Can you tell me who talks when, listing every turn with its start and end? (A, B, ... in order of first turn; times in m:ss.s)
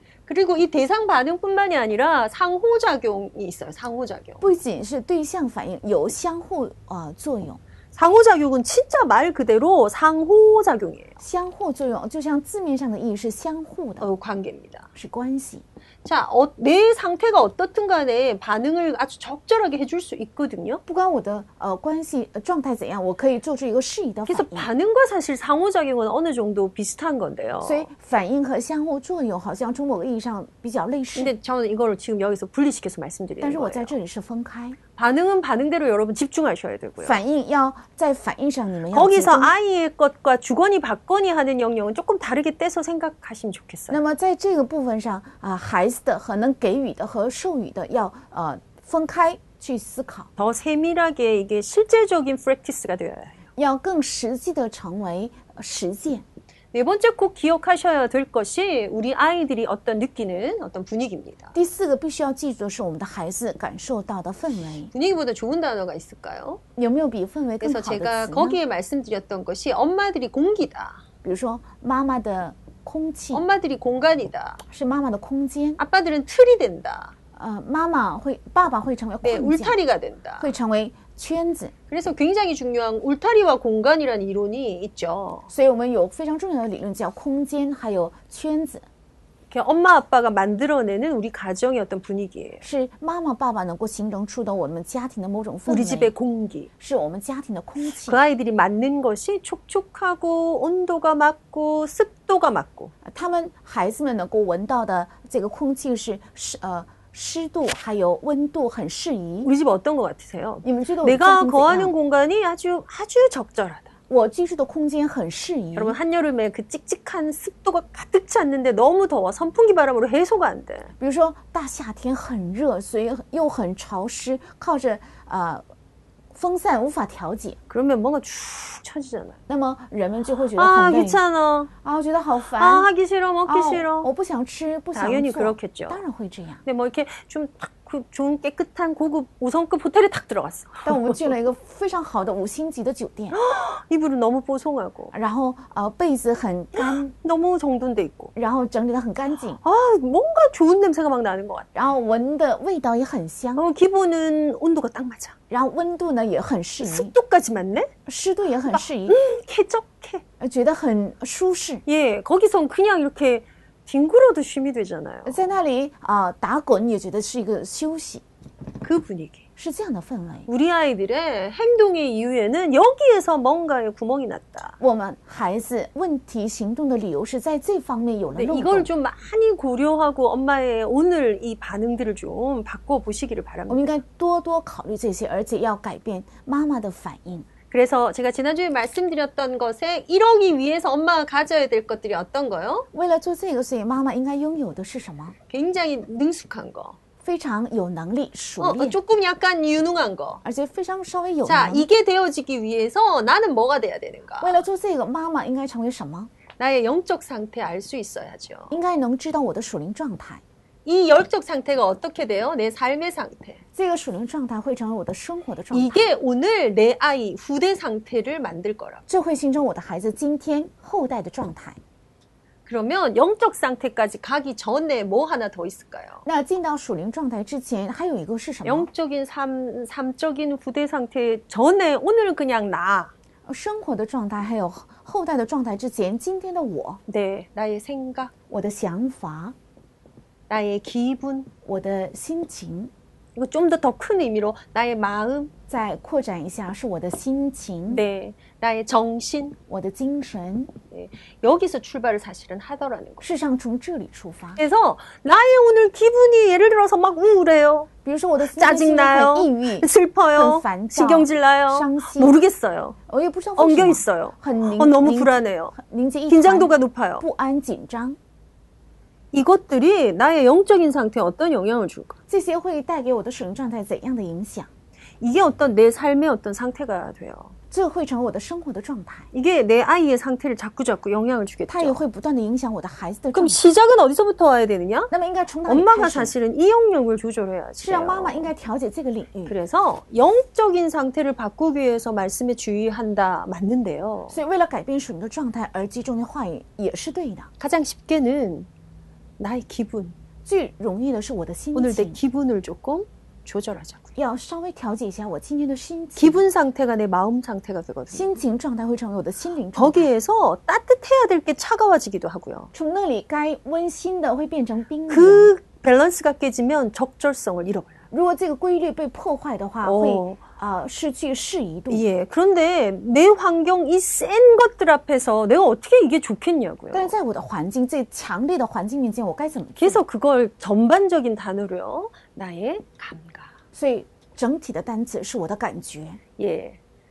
0:00.3-0:04.4 A
0:04.4-0:07.6 B
0:08.0-0:11.2 A
0:11.2-0:14.1 B
0:14.0-0:14.9 A
0:15.0-0:15.6 B
0:16.0-0:20.8 A
0:20.9-0:24.7 B
0:24.3-0:27.9 A
0:27.6-0:31.3 B
0:31.2-0:33.9 A
0:33.4-0:34.8 B
0:35.0-0:37.2 A
0:37.0-0:39.5 B
0:38.9-0:44.0 A
0:43.9-0:50.3 B
0:50.4-0:53.4 A
0:53.6-0:56.2 B
0:56.7-1:01.5 A
1:01.5-1:04.9 B
1:04.9-1:06.6 A
1:06.8-1:08.6 B
1:07.6-1:11.0 A
1:11.2-1:13.5 B
1:13.3-1:14.6 A
1:14.6-1:15.8 B
1:15.8-1:17.1 A
1:17.4-1:19.8 B
1:19.2-1:20.5 A
1:20.4-1:21.7 B
1:21.9-1:25.5 A
1:25.5-1:28.8 B
1:29.5-1:32.6 A
1:32.6-1:36.1 B
1:35.7-1:36.7 A
1:36.8-1:38.2 B
1:38.0-1:42.9 A
1:43.0-1:49.5 B
1:49.4-1:53.9 A
1:50.6-1:51.9 B
1:54.1-1:56.0 B
1:55.8-2:00.9 A
2:01.0-2:05.6 B
2:06.3-2:07.6 B
2:07.7-2:09.4 A
2:09.5-2:11.2 B
2:10.6-2:11.7 A
2:11.8-2:12.9 B
2:12.6-2:14.1 A
2:13.5-2:16.6 B
2:14.9-2:16.0 A
2:16.6-2:21.3 A
2:20.8-2:23.4 B
2:23.3-2:25.1 A
2:25.1-2:27.1 B
2:26.7-2:28.3 A
2:28.4-2:29.6 B
2:29.6-2:31.7 A
2:31.7-2:33.6 B
2:33.6-2:35.4 A
2:35.5-2:37.1 B
2:36.8-2:37.9 A
2:38.1-2:39.2 B
2:38.7-2:40.2 A
2:40.4-2:41.8 B
2:41.9-2:45.5 A
2:45.3-2:48.2 B
2:48.8-2:49.4 A
2:49.6-2:50.5 B
2:50.5-2:54.8 A
2:54.8-2:58.9 B
2:58.4-3:04.0 A
3:03.7-3:07.5 B
3:07.7-3:12.9 A
3:12.9-3:15.4 B
3:15.5-3:17.0 A
3:17.2-3:19.0 B
3:18.6-3:20.4 A
3:20.4-3:21.9 B
3:21.4-3:24.6 A
3:24.4-3:26.3 B
3:26.6-3:28.8 A
3:28.7-3:30.4 B
3:30.8-3:33.6 A
3:33.8-3:36.0 B
3:35.7-3:39.0 A
3:39.1-3:41.8 B
3:42.7-3:46.2 A
3:46.2-3:48.9 B
3:48.6-3:53.1 A
3:53.5-3:57.0 B
3:57.1-3:58.3 A
3:58.5-3:59.6 B
4:00.5-4:01.5 A
4:01.6-4:02.9 B
4:03.4-4:05.5 A
4:05.7-4:08.0 B
4:07.9-4:09.6 A
4:09.7-4:10.7 B
4:10.9-4:13.3 A
4:13.2-4:14.6 B
4:14.6-4:17.9 A
4:18.0-4:22.3 B
4:18.5-4:23.0 A
4:23.1-4:28.2 B
4:23.6-4:25.8 A
4:26.3-4:27.2 A
4:29.3-4:32.2 A
4:32.3-4:34.7 B
4:35.2-4:37.6 A
4:37.7-4:39.3 B
4:39.3-4:42.0 A
4:41.7-4:43.6 B
4:43.3-4:45.1 A
4:45.1-4:46.3 B
4:45.7-4:48.5 A
4:47.8-4:49.6 B
4:49.5-4:54.4 A
4:54.3-4:57.5 B
4:57.6-4:58.7 A
4:59.4-5:00.2 A
5:00.5-5:02.2 B
5:01.8-5:04.1 A
5:04.2-5:06.4 B
5:06.2-5:08.4 A
5:08.1-5:10.1 B
5:09.8-5:12.7 A
5:12.7-5:15.5 B
5:15.1-5:18.0 A
5:18.1-5:22.0 B
5:19.8-5:20.4 A
5:21.9-5:27.2 A
5:26.9-5:30.0 B
5:29.8-5:33.5 A
5:33.7-5:36.2 B
5:36.4-5:36.8 A